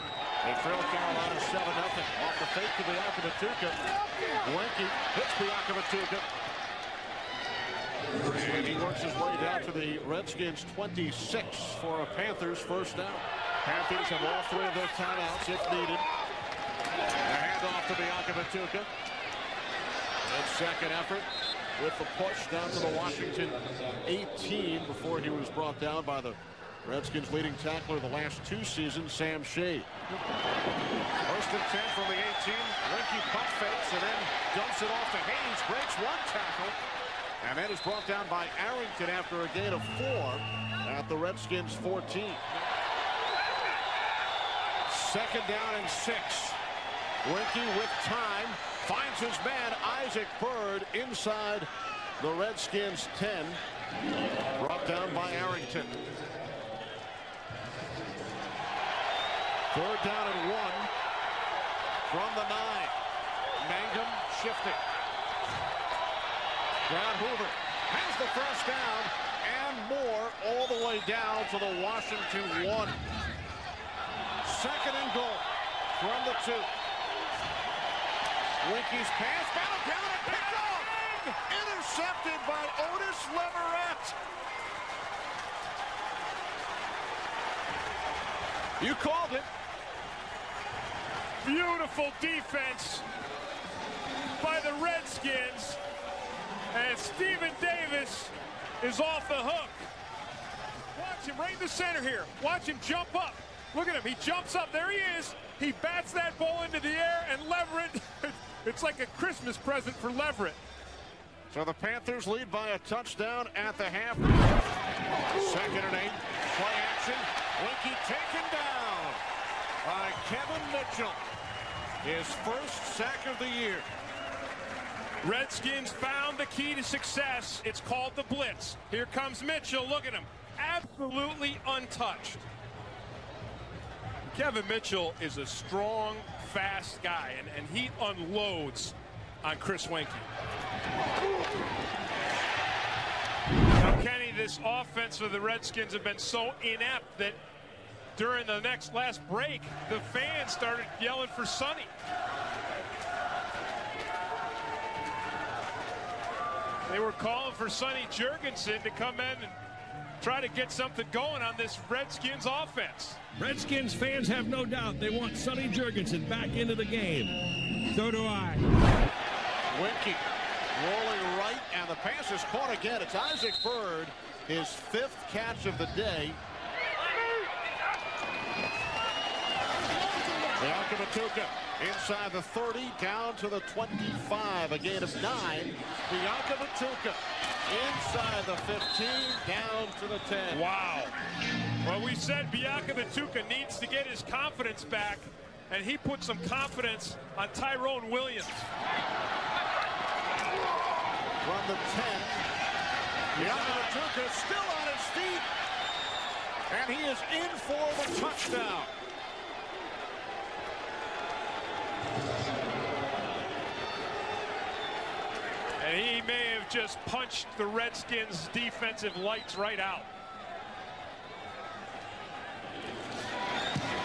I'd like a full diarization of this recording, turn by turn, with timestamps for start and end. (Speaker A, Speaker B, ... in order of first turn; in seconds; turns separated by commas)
Speaker A: 0.4-6.3, Speaker A: 8.2-16.1, Speaker A: 17.2-18.9, Speaker A: 20.3-29.9, Speaker A: 31.2-36.8, Speaker A: 37.4-42.5, Speaker A: 44.9-46.6, Speaker A: 47.2-51.7, Speaker A: 52.2-53.6, Speaker A: 54.6-56.0, Speaker A: 59.7-60.9, Speaker A: 62.1-63.0, Speaker A: 63.6-64.8, Speaker A: 66.9-73.0, Speaker A: 74.4-75.5, Speaker A: 76.0-76.7, Speaker A: 78.6-84.2, Speaker B: 80.2-81.3, Speaker A: 88.8-89.5, Speaker B: 91.4-93.1, Speaker B: 94.4-95.8, Speaker B: 96.7-99.9, Speaker B: 100.9-110.6, Speaker A: 111.5-114.6, Speaker A: 115.3-119.2, Speaker A: 119.8-121.2, Speaker A: 122.0-123.9, Speaker B: 125.2-132.5, Speaker B: 134.3-140.3, Speaker B: 143.8-147.4, Speaker B: 148.2-151.9, Speaker B: 156.9-159.6, Speaker B: 160.2-163.2, Speaker C: 163.4-168.7, Speaker A: 169.7-176.4, Speaker A: 180.6-190.6, Speaker B: 190.5-191.2, Speaker B: 191.8-198.7, Speaker A: 201.4-202.5, Speaker B: 203.3-203.9, Speaker A: 203.3-205.5, Speaker A: 206.7-208.9, Speaker B: 215.8-220.1